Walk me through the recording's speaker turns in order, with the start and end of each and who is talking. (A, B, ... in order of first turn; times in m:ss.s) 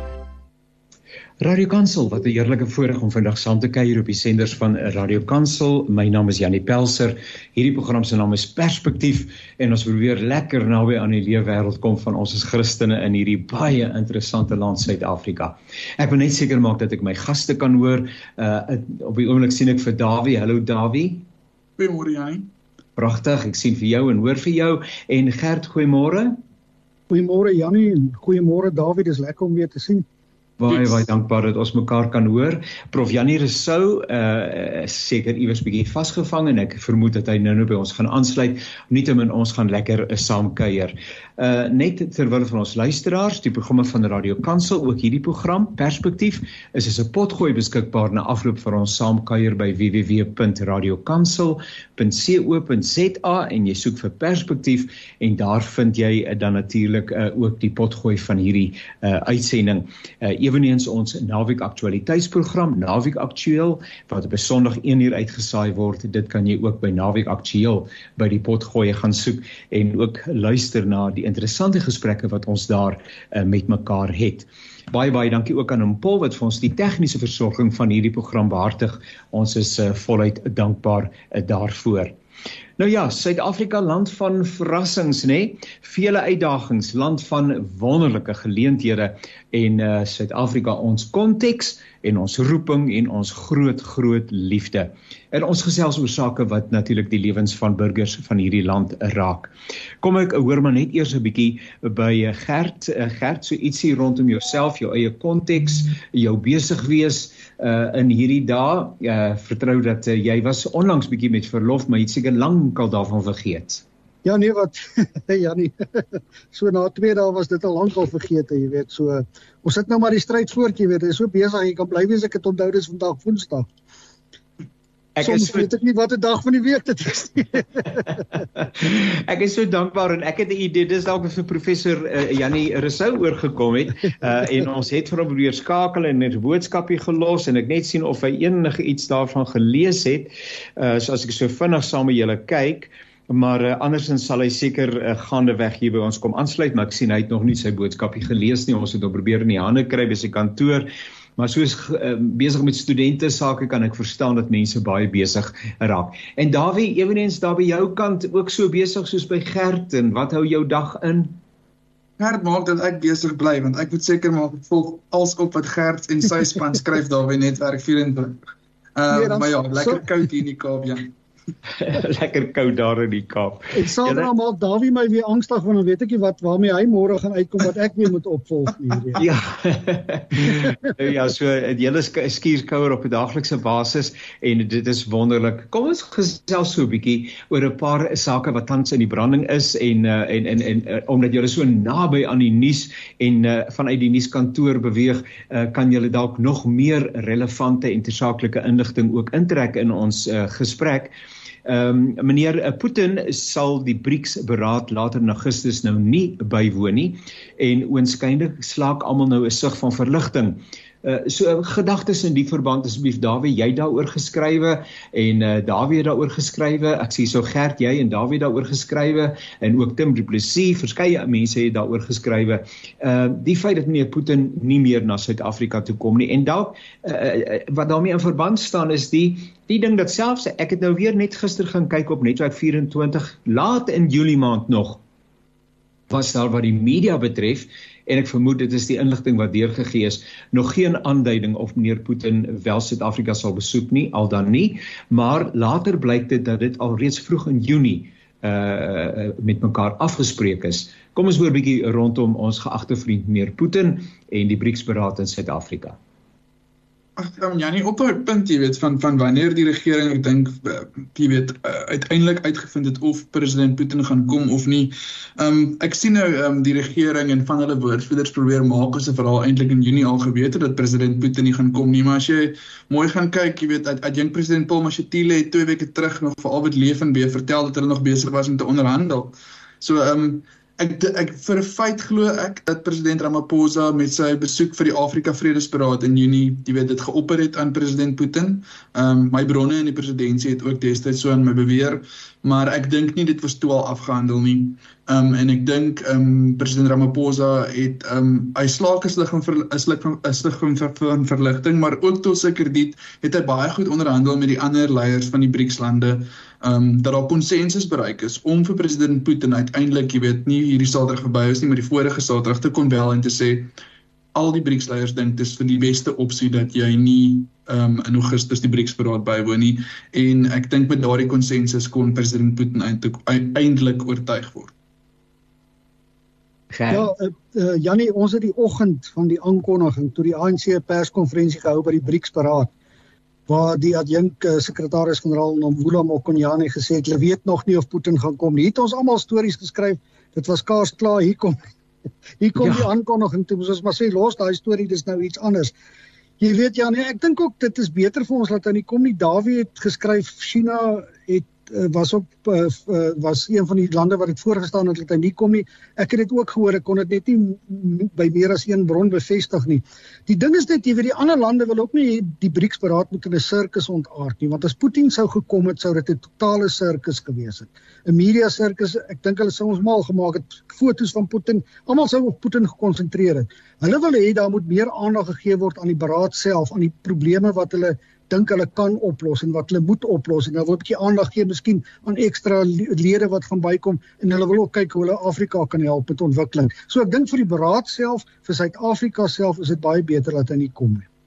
0:01.4-0:21.2 A
0:21.8-0:22.5 B
0:23.0-0:26.4 A
0:27.1-0:30.0 C
0:30.6-1:22.2 A
1:22.8-1:53.8 A
1:54.2-2:03.7 C
2:05.1-2:05.7 A
2:05.2-2:08.0 C
2:08.8-2:41.4 A
2:42.2-2:48.4 B
2:49.0-2:51.1 B
2:49.1-2:50.0 C
2:51.8-2:54.3 A
2:53.7-2:59.2 C
2:59.1-3:21.1 A
3:21.6-3:55.0 A
3:56.1-4:16.0 A
4:17.2-5:13.7 B
5:14.3-5:24.7 B
5:26.7-5:27.1 A
5:26.9-5:32.7 C
5:33.5-5:41.6 C
5:42.4-5:45.7 C
5:42.6-5:42.9 A
5:46.4-6:31.1 C